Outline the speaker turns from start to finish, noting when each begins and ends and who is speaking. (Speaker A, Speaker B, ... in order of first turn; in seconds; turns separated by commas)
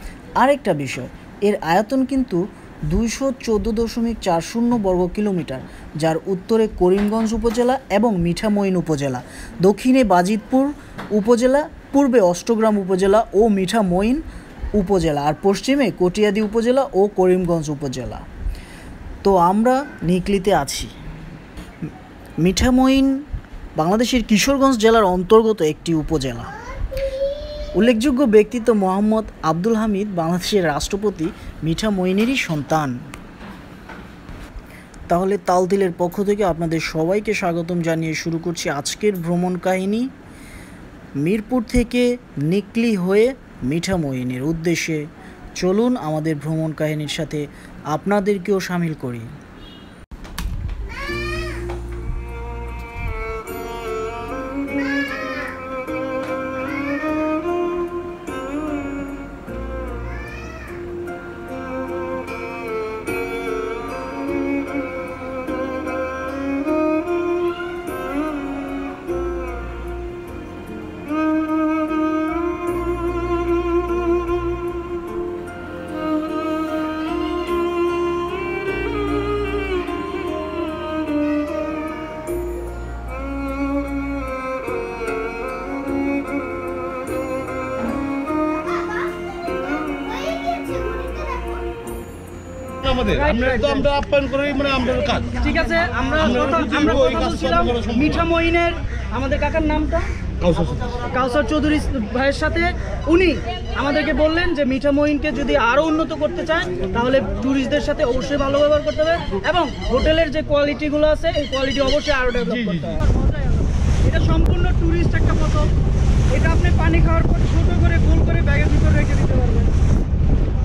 Speaker A: 0.4-14.2, Speaker A: 14.8-18.2, Speaker A: 19.2-20.9, Speaker A: 22.4-23.1, Speaker A: 23.8-26.5, Speaker A: 27.8-33.0, Speaker A: 35.1-40.1, Speaker A: 41.2-45.0, Speaker A: 45.6-49.3, Speaker B: 92.8-95.4, Speaker C: 93.1-93.8, Speaker C: 95.4-100.1, Speaker B: 96.2-98.2, Speaker B: 100.4-101.1, Speaker C: 101.1-115.7, Speaker B: 112.4-113.0, Speaker C: 116.3-119.8